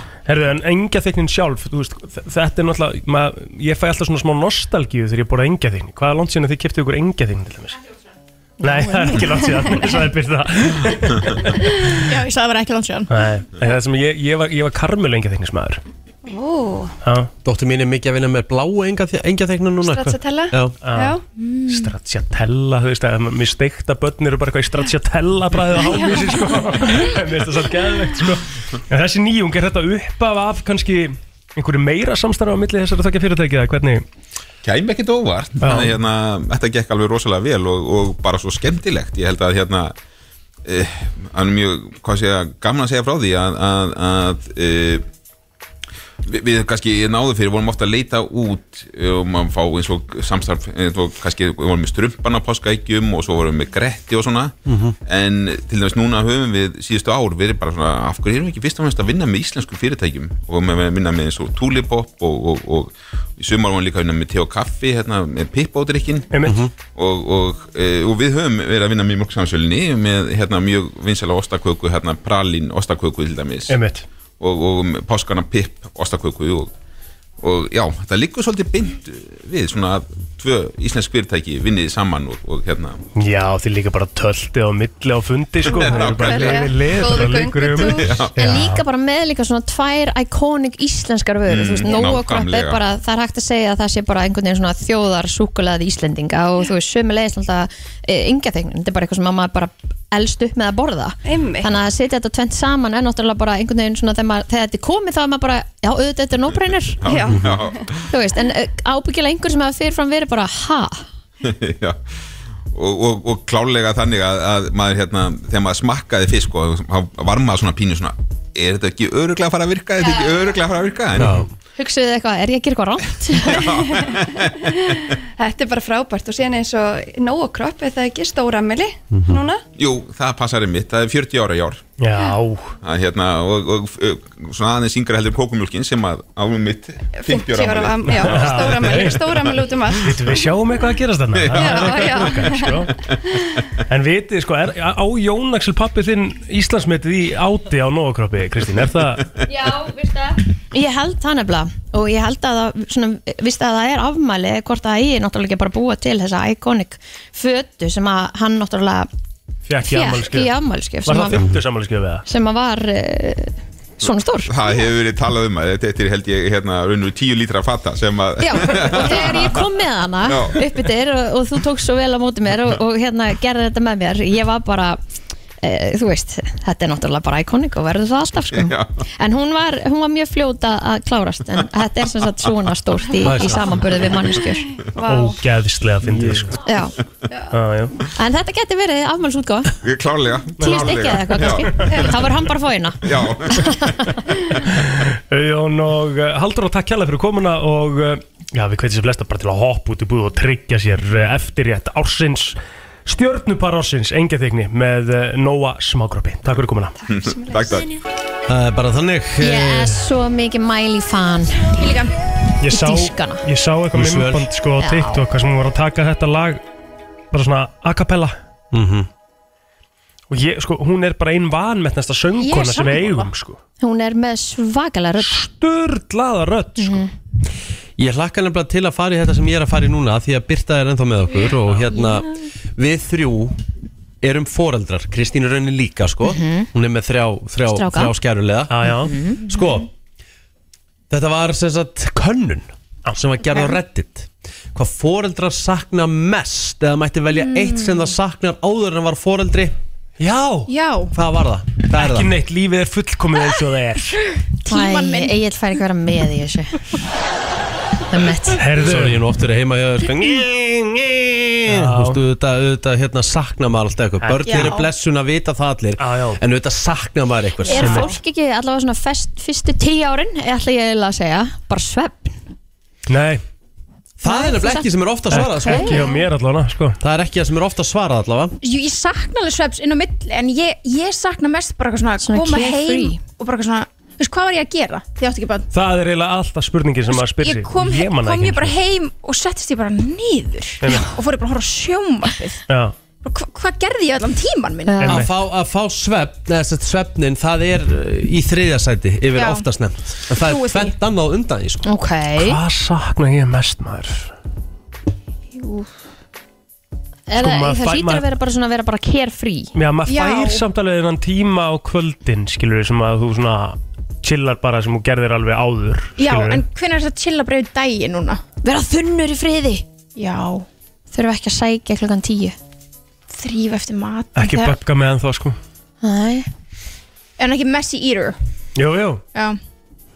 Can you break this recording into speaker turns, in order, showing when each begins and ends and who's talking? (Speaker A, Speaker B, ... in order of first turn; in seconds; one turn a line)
Speaker A: 0.2-7.8
Speaker A: 8.6-11.9
Speaker B: 12.0-13.1
Speaker A: 13.1-15.8
Speaker C: 16.3-16.5
Speaker A: 17.0-17.3
Speaker D: 17.4-20.8
Speaker C: 19.8-21.2
Speaker A: 20.8-34.0
Speaker B: 21.5-21.8
Speaker C: 25.8-27.0
Speaker E: 34.6-39.9
Speaker A: 35.6-36.0
Speaker E: 40.6-45.0
Speaker E: 46.2-73.8
Speaker D: 54.6-54.9
Speaker A: 66.3-66.6
Speaker D: 66.5-66.7
Speaker A: 73.7-74.0
Speaker E: 74.4-76.7
Speaker E: 77.4-83.0
Speaker A: 83.2-88.8
Speaker E: 85.7-86.6
Speaker C: 85.7-88.3
Speaker E: 87.8-88.3
Speaker F: 88.3-107.0
Speaker E: 91.5-92.8
Speaker C: 101.2-101.7
Speaker E: 107.0-108.0
Speaker C: 107.1-107.9
Speaker F: 108.1-111.0
Speaker E: 111.4-112.0
Speaker E: 112.7-121.4
Speaker F: 120.0-120.3
Speaker D: 121.2-121.5
Speaker F: 121.8-123.7
Speaker E: 123.5-124.9
Speaker C: 125.4-129.6
Speaker D: 129.1-129.4
Speaker E: 129.8-131.8
Speaker A: 132.0-132.7
Speaker E: 132.8-139.5
Speaker C: 137.1-140.4
Speaker A: 138.0-142.9
Speaker E: 141.3-142.0
Speaker C: 141.6-142.8
Speaker A: 143.9-149.3
Speaker F: 149.4-159.1
Speaker A: 159.7-162.2
Speaker F: 159.9-161.4
Speaker F: 162.2-164.5
Speaker E: 164.5-169.7
Speaker B: 168.4-169.4
Speaker F: 168.6-175.0
Speaker E: 170.2-170.6
Speaker F: 175.6-184.9
Speaker E: 178.5-178.9
Speaker D: 183.2-183.7
Speaker A: 185.0-186.6
Speaker D: 186.0-186.5
Speaker F: 186.7-186.9
Speaker A: 187.5-187.9
Speaker F: 188.1-189.7
Speaker E: 189.8-192.2
Speaker F: 190.6-194.2
Speaker A: 190.6-191.9
Speaker E: 193.0-194.0
Speaker A: 194.7-206.9
Speaker C: 207.1-207.8
Speaker E: 207.1-207.9
Speaker D: 208.5-210.0
Speaker F: 209.4-211.7
Speaker B: 211.8-212.1
Speaker A: 212.6-216.6
Speaker F: 212.7-213.4
Speaker D: 213.9-214.5
Speaker F: 214.8-215.2
Speaker A: 217.3-218.3
Speaker D: 218.7-219.1
Speaker A: 220.3-223.6
Speaker B: 222.4-223.3
Speaker F: 223.8-225.4
Speaker A: 225.2-227.1
Speaker F: 226.8-227.1
Speaker D: 228.0-233.6
Speaker D: 234.2-238.8
Speaker F: 236.2-236.7
Speaker F: 237.7-238.1
Speaker A: 238.7-239.1
Speaker F: 239.0-239.4
Speaker D: 239.5-239.9
Speaker D: 241.1-249.7
Speaker B: 243.5-243.8
Speaker B: 247.4-248.1
Speaker A: 250.2-250.7
Speaker B: 250.7-251.1
Speaker D: 251.1-252.3
Speaker A: 251.9-254.2
Speaker F: 254.7-256.8
Speaker B: 254.7-255.3
Speaker F: 258.1-258.6
Speaker A: 258.6-259.2
Speaker D: 258.8-268.1
Speaker A: 261.7-262.2
Speaker A: 264.2-264.8
Speaker B: 264.4-264.9
Speaker A: 266.0-266.4
Speaker B: 267.6-268.2
Speaker F: 267.7-272.4
Speaker A: 267.8-268.1
Speaker A: 273.1-273.4
Speaker D: 274.2-276.0
Speaker F: 274.2-276.1
Speaker A: 275.3-277.0
Speaker B: 275.6-276.2
Speaker D: 277.0-278.5
Speaker B: 278.6-285.7
Speaker F: 282.2-283.2
Speaker A: 285.7-288.8
Speaker B: 287.1-292.6
Speaker A: 290.8-291.1
Speaker A: 292.7-292.9
Speaker B: 293.2-295.0
Speaker F: 294.9-295.2
Speaker A: 295.0-295.3
Speaker D: 295.0-301.9
Speaker B: 299.3-299.7
Speaker B: 300.4-300.9
Speaker F: 301.9-302.6
Speaker A: 302.4-304.3
Speaker B: 305.5-305.9
Speaker F: 307.3-309.7
Speaker A: 307.4-308.2
Speaker A: 309.7-316.6
Speaker B: 310.1-310.6
Speaker B: 316.2-318.4
Speaker F: 318.6-319.8
Speaker B: 320.1-320.6
Speaker F: 321.1-322.6
Speaker B: 323.3-324.8
Speaker A: 324.3-325.6
Speaker F: 326.0-326.5
Speaker B: 327.4-328.4
Speaker A: 328.8-329.2